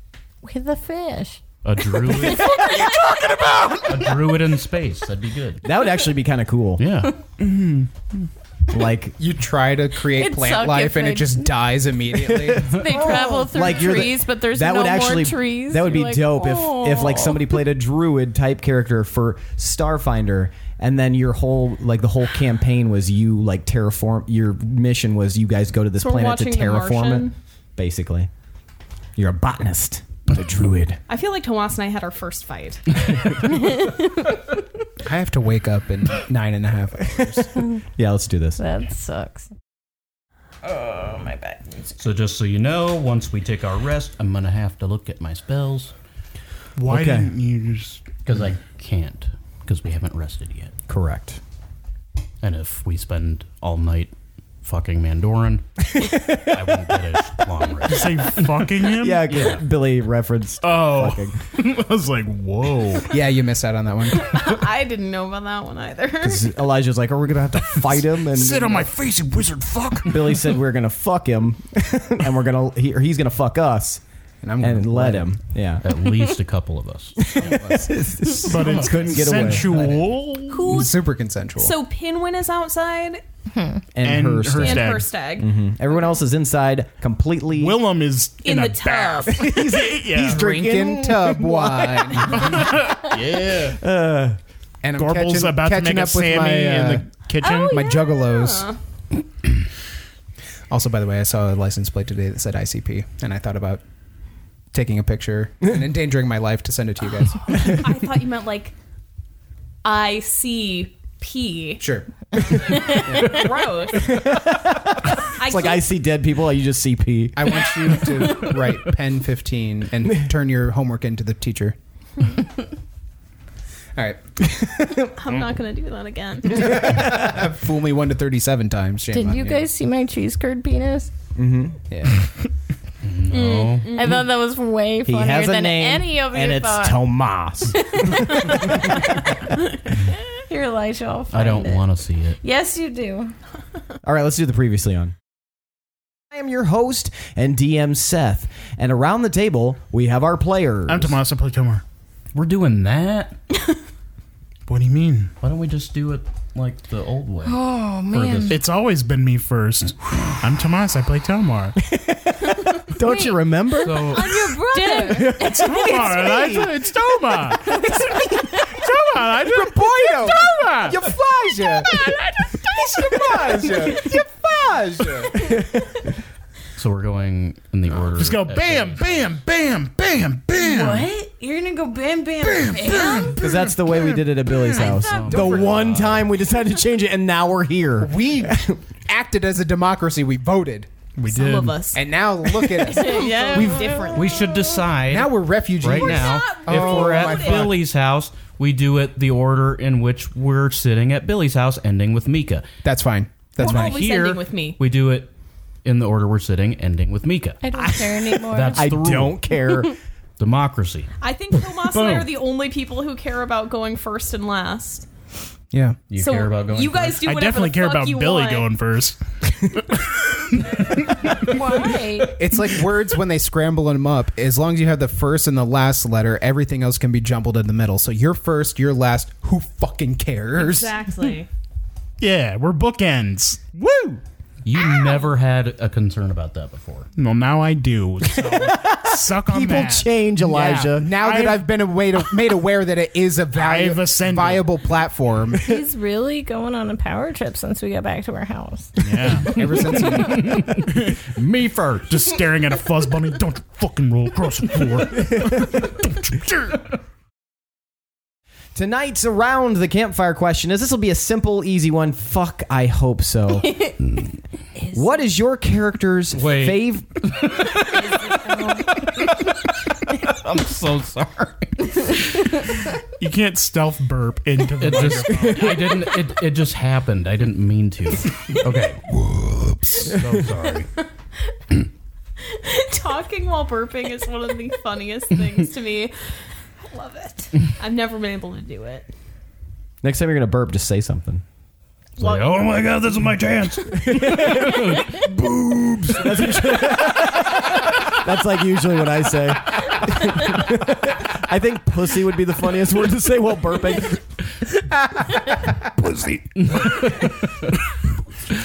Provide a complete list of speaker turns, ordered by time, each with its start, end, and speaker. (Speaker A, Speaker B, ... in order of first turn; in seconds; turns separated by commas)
Speaker A: 0.4-1.4, Speaker B: 1.6-2.5, Speaker A: 2.0-3.5, Speaker C: 2.2-3.5, Speaker D: 2.6-3.8, Speaker B: 3.9-5.6, Speaker C: 5.6-6.8, Speaker B: 6.8-7.1, Speaker D: 7.4-8.2, Speaker C: 8.7-9.2, Speaker E: 9.2-13.2, Speaker A: 10.0-11.5, Speaker C: 12.1-28.3, Speaker A: 12.7-17.6, Speaker F: 26.0-27.3, Speaker C: 29.1-31.0, Speaker F: 31.1-33.1, Speaker E: 35.0-37.6, Speaker C: 37.1-38.6, Speaker A: 38.6-39.5, Speaker A: 40.6-41.9, Speaker B: 42.0-45.9, Speaker D: 46.8-48.1, Speaker C: 46.9-47.3, Speaker B: 48.2-50.7, Speaker C: 50.9-51.4, Speaker B: 52.4-58.6, Speaker C: 55.9-57.4, Speaker D: 57.9-59.3, Speaker C: 58.8-61.3, Speaker B: 59.3-59.6, Speaker D: 60.6-63.1, Speaker E: 63.1-64.3, Speaker F: 64.1-66.5, Speaker C: 66.2-68.9, Speaker D: 68.2-70.6, Speaker C: 70.0-74.0, Speaker E: 74.4-75.3, Speaker C: 74.6-75.8, Speaker B: 75.8-77.3, Speaker C: 77.2-80.0, Speaker E: 77.3-78.2, Speaker D: 78.4-80.9, Speaker F: 80.5-80.9, Speaker E: 80.7-81.8, Speaker F: 81.6-83.2, Speaker C: 83.9-87.8, Speaker D: 84.0-85.1, Speaker F: 84.6-85.5, Speaker D: 87.5-90.5, Speaker F: 88.4-89.4, Speaker C: 89.3-94.4, Speaker E: 90.1-92.7, Speaker D: 92.5-93.1, Speaker B: 93.1-93.7, Speaker E: 94.8-97.1, Speaker D: 95.0-97.8, Speaker F: 97.4-98.8, Speaker E: 97.6-98.7, Speaker E: 100.7-103.8, Speaker E: 104.7-107.8, Speaker F: 107.4-108.7, Speaker F: 109.8-111.8, Speaker E: 111.8-113.5, Speaker F: 112.5-114.3, Speaker C: 113.9-118.4, Speaker F: 115.3-115.9, Speaker E: 117.3-121.8, Speaker E: 123.9-124.6, Speaker C: 124.6-125.1, Speaker F: 125.1-126.8, Speaker E: 126.4-129.7, Speaker C: 126.8-127.2, Speaker A: 129.1-131.1, Speaker C: 131.3-131.8, Speaker E: 131.9-132.3, Speaker B: 133.0-134.1, Speaker F: 133.3-134.2, Speaker A: 133.9-137.0, Speaker C: 135.0-139.4, Speaker A: 137.8-139.1, Speaker A: 139.9-141.8, Speaker B: 141.3-142.4, Speaker A: 142.4-143.3, Speaker C: 144.0-145.1, Speaker C: 146.3-151.2, Speaker D: 150.9-151.8, Speaker B: 152.3-153.4, Speaker D: 154.7-155.3, Speaker B: 155.4-158.6, Speaker A: 157.4-158.6, Speaker D: 158.5-161.8, Speaker C: 161.8-164.3, Speaker A: 163.0-163.4, Speaker B: 163.7-164.6, Speaker A: 163.9-166.7, Speaker F: 164.7-165.1, Speaker C: 165.1-166.6, Speaker D: 165.3-171.1, Speaker A: 167.5-168.9, Speaker E: 169.4-170.5, Speaker C: 170.8-172.1, Speaker E: 171.1-171.9, Speaker D: 171.9-174.1, Speaker E: 172.8-175.5, Speaker C: 173.2-173.7, Speaker C: 175.3-176.1, Speaker B: 176.8-179.3, Speaker D: 178.1-181.1, Speaker A: 180.5-183.5, Speaker C: 183.3-188.8, Speaker B: 184.8-186.3, Speaker E: 185.3-185.8, Speaker E: 188.0-190.9, Speaker D: 191.2-191.8, Speaker F: 191.2-194.5, Speaker E: 191.9-193.8, Speaker A: 192.9-194.6, Speaker B: 194.1-202.7, Speaker E: 195.1-197.8, Speaker F: 195.9-197.8, Speaker E: 202.8-204.1, Speaker F: 203.6-204.8, Speaker B: 203.6-205.3, Speaker B: 205.8-207.6, Speaker A: 207.6-209.0, Speaker C: 207.8-209.9, Speaker B: 208.5-209.3, Speaker D: 209.0-209.3, Speaker B: 210.4-211.1, Speaker F: 211.2-215.1, Speaker B: 211.7-212.3, Speaker E: 215.7-216.0, Speaker B: 216.1-217.2, Speaker F: 216.1-218.7, Speaker D: 217.2-221.6, Speaker A: 221.5-222.3, Speaker E: 222.3-231.0, Speaker F: 230.5-231.5, Speaker D: 232.2-234.2, Speaker B: 234.6-237.1, Speaker F: 234.9-235.2, Speaker D: 237.2-241.6, Speaker C: 238.2-241.2, Speaker E: 241.0-245.7, Speaker D: 243.5-244.6, Speaker A: 245.6-250.2, Speaker D: 249.0-249.6, Speaker E: 249.4-250.7, Speaker D: 250.2-256.8, Speaker C: 258.7-263.7, Speaker A: 263.7-263.9, Speaker C: 264.9-267.1, Speaker B: 266.3-269.4, Speaker A: 267.9-268.8, Speaker B: 270.1-271.7, Speaker D: 273.2-275.9, Speaker B: 274.8-280.9, Speaker C: 275.2-275.9, Speaker F: 282.5-289.1, Speaker C: 290.0-291.4, Speaker B: 292.2-296.4, Speaker F: 292.2-292.5, Speaker C: 293.9-304.5, Speaker C: 306.0-306.9, Speaker B: 306.6-307.2